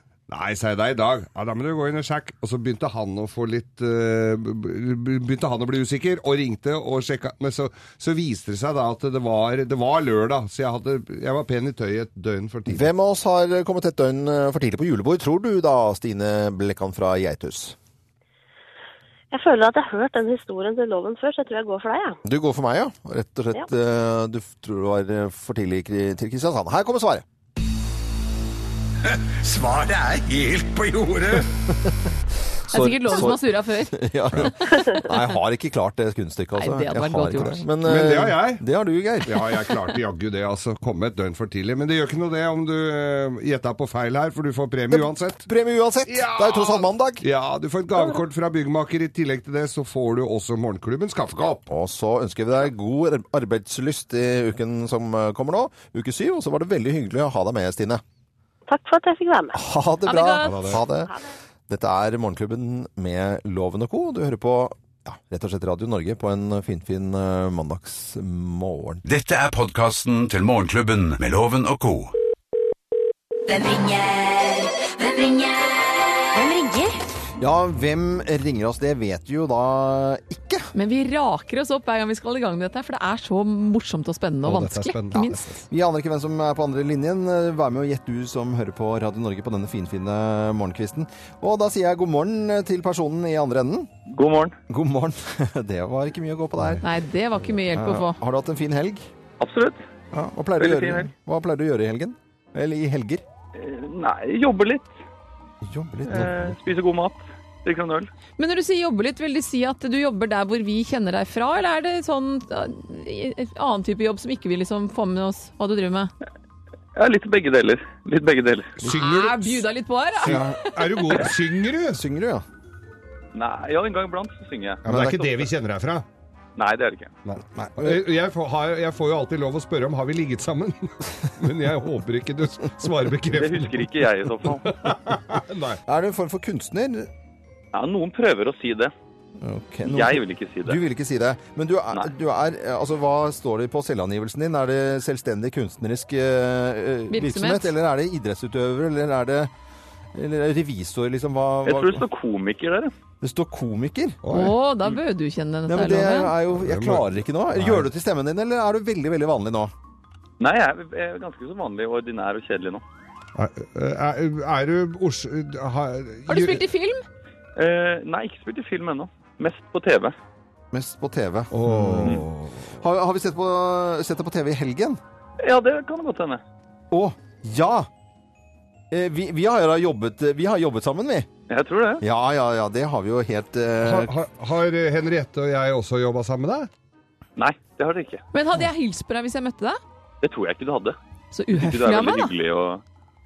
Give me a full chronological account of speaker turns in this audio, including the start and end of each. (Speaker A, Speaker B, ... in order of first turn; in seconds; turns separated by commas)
Speaker A: 0.3-12.9, Speaker B: 12.7-17.8, Speaker C: 19.3-22.2, Speaker B: 22.2-27.2, Speaker D: 29.6-31.3, Speaker B: 32.7-39.5, Speaker E: 32.7-34.5, Speaker E: 36.6-37.6, Speaker A: 37.8-38.6, Speaker A: 39.2-45.5, Speaker B: 44.9-47.2, Speaker A: 46.1-51.6, Speaker B: 51.7-58.0, Speaker C: 58.7-59.6, Speaker B: 59.5-61.1, Speaker E: 60.1-60.8, Speaker A: 60.4-60.8, Speaker B: 61.7-69.0, Speaker D: 69.1-72.1, Speaker F: 73.5-77.0, Speaker B: 77.4-80.7, Speaker E: 80.8-85.5, Speaker A: 84.4-85.5, Speaker B: 85.1-93.9, Speaker G: 94.1-94.6, Speaker B: 94.7-96.8, Speaker E: 96.8-98.2, Speaker B: 97.7-99.1, Speaker G: 99.4-99.9, Speaker B: 100.1-103.2, Speaker G: 100.6-101.1, Speaker G: 103.5-105.0, Speaker B: 105.6-106.5, Speaker G: 106.1-108.1, Speaker E: 108.4-116.1, Speaker G: 117.0-118.8, Speaker A: 118.8-119.6, Speaker E: 118.9-121.1, Speaker A: 120.2-122.0, Speaker B: 120.2-120.6, Speaker B: 121.9-122.5, Speaker G: 123.3-124.9, Speaker A: 124.8-126.0, Speaker B: 124.9-125.5, Speaker G: 126.6-127.2, Speaker A: 127.2-133.9, Speaker B: 127.6-128.0, Speaker G: 133.3-134.9, Speaker A: 134.7-135.8, Speaker B: 135.9-137.1, Speaker G: 137.7-138.9, Speaker B: 139.4-149.5, Speaker G: 139.8-140.8, Speaker E: 147.1-147.7, Speaker B: 150.1-152.0, Speaker G: 151.6-152.9, Speaker B: 153.2-154.2, Speaker A: 154.2-154.6, Speaker E: 154.3-156.3, Speaker B: 155.7-159.7, Speaker A: 156.6-157.9, Speaker G: 160.4-162.8, Speaker A: 163.4-166.6, Speaker E: 166.3-167.1, Speaker G: 167.6-170.2, Speaker B: 170.7-175.0, Speaker A: 171.5-172.3, Speaker G: 175.4-176.4, Speaker B: 176.9-177.9, Speaker B: 178.9-181.3, Speaker G: 181.5-182.0, Speaker B: 182.0-184.1, Speaker A: 183.8-186.7, Speaker G: 187.4-188.2, Speaker E: 188.3-189.8, Speaker G: 190.2-191.0, Speaker E: 191.3-192.3, Speaker G: 191.5-192.8